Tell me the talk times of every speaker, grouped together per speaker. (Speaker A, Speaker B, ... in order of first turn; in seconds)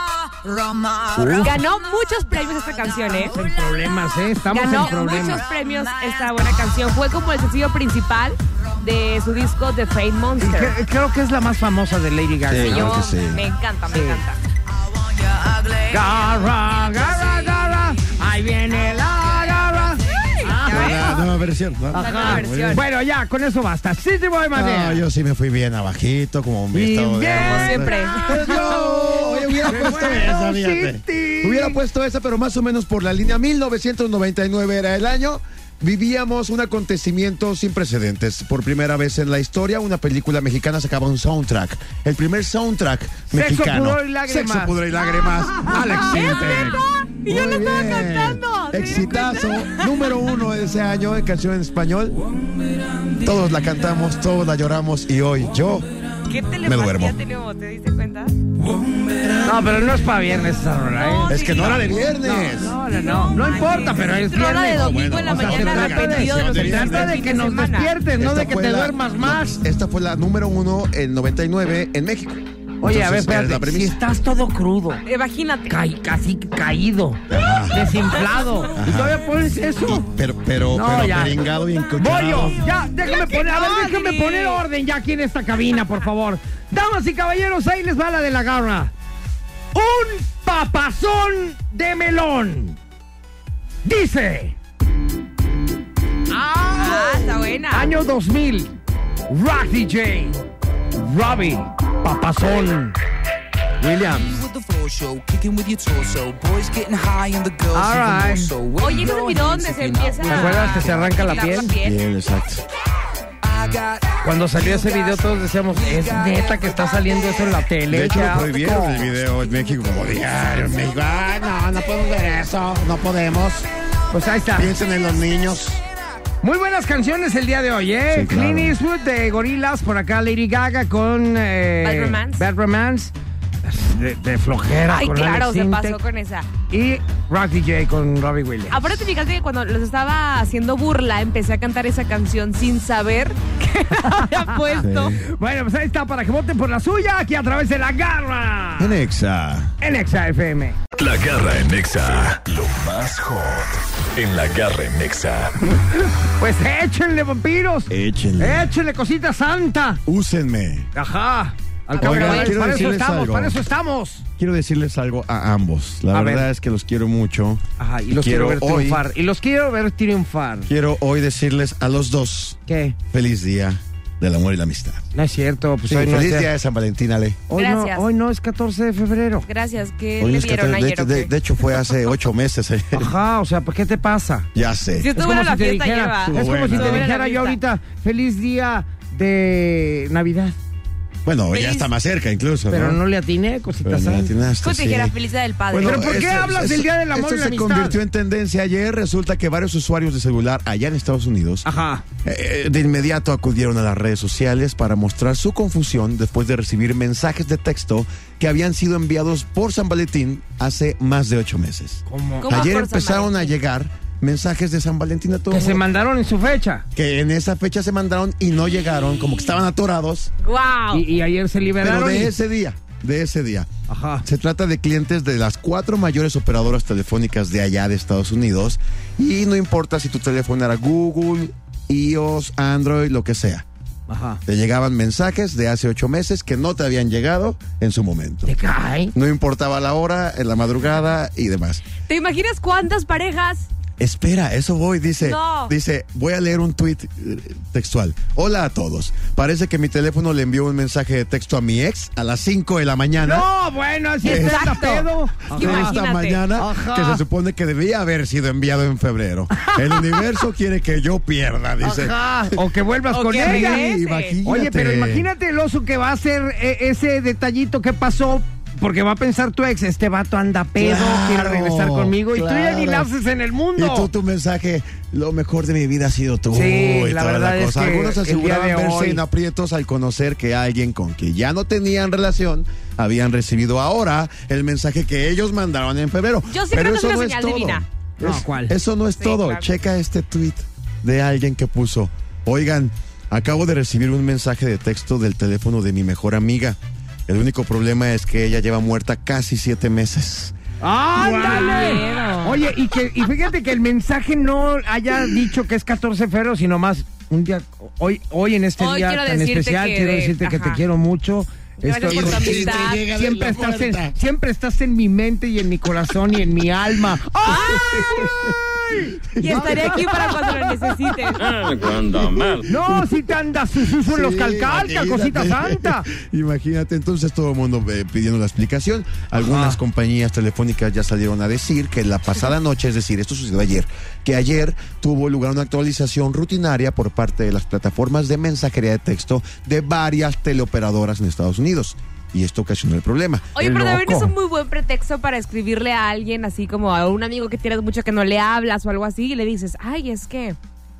Speaker A: 1.1-1.6, 3.2-5.4, 10.4-12.9, 13.9-14.2, 15.9-21.3, 21.9-25.0, 26.7-31.8, 43.3-44.8, 45.6-46.8, 59.4-69.6, 72.8-75.0, 75.7-80.0, 80.7-81.4, 82.0-88.9, 89.7-92.8, 93.8-94.5, 96.3-98.7, 99.3-100.4, 100.9-103.0, 103.8-104.5, 107.7-108.5, 110.3-111.7, 114.2-119.1, 124.1-124.7, 126.4-133.1, 133.6-136.0, 136.7-138.9, 144.1-149.0, 149.8-150.8, 156.4-160.0, 160.9-164.2, 166.1-166.5, 167.8-170.7, 172.7-173.0, 175.1-176.5, 177.5-179.4, 182.9-184.4, 185.1-190.5, 192.7-194.3, 195.8-198.0, 201.6-202.0, 212.1-212.7, 215.5-216.8, 220.9-222.3, 223.9-224.2, 234.1-234.4, 238.4-239.1, 253.2-256.0, 256.5-257.2, 259.5-260.2, 261.8-263.9, 264.4-274.1, 276.5-279.2, 288.2-288.8, 300.8-321.9, 322.6-326.1, 329.4-329.8, 343.6-344.3
Speaker B: 1.4-3.3, 4.5-10.8, 12.6-14.4, 20.2-21.3, 21.9-22.8, 27.3-28.9, 45.9-49.9, 56.3-58.4, 61.0-62.0, 62.9-67.9, 75.0-75.7, 83.0-84.6, 96.7-97.9, 108.8-112.0, 131.8-132.4, 134.9-136.5, 138.7-145.2, 161.9-162.9, 177.5-178.1, 179.4-181.7, 185.0-187.6, 191.5-191.9, 194.6-196.2, 212.4-213.5, 220.4-221.1, 242.1-243.7, 245.2-245.7, 254.2-256.4, 263.1-264.4, 286.5-287.8, 289.2-289.7, 301.1-302.7, 308.8-310.8, 311.8-313.1, 317.4-318.3, 319.4-321.6, 343.5-350.6
Speaker C: 12.5-13.4, 20.7-22.8, 24.5-52.2, 53.2-55.9, 56.6-57.2, 59.2-59.5, 61.3-62.8, 64.7-67.2, 68.2-74.0, 77.3-78.0, 78.8-82.7, 111.8-112.6, 117.9-123.7, 124.5-125.8, 128.1-128.8, 144.8-145.2, 148.8-149.7, 157.9-158.7, 160.1-160.9, 162.0-163.6, 164.4-167.6, 168.1-169.0, 170.7-175.1, 175.9-177.4, 180.2-183.1, 184.5-185.1, 186.2-187.1, 191.2-193.0, 193.8-195.2, 195.7-201.7, 202.2-215.8, 216.9-220.3, 221.8-223.7, 224.2-233.7, 234.4-238.5, 239.1-241.8, 244.0-253.5, 254.2-254.8, 255.5-262.7, 263.3-265.3, 270.8-273.1, 273.8-300.5, 312.0-314.1, 317.5-320.0, 321.6-323.3, 323.9-343.6
Speaker D: 104.1-111.2, 113.4-117.0
Speaker E: 151.0-155.7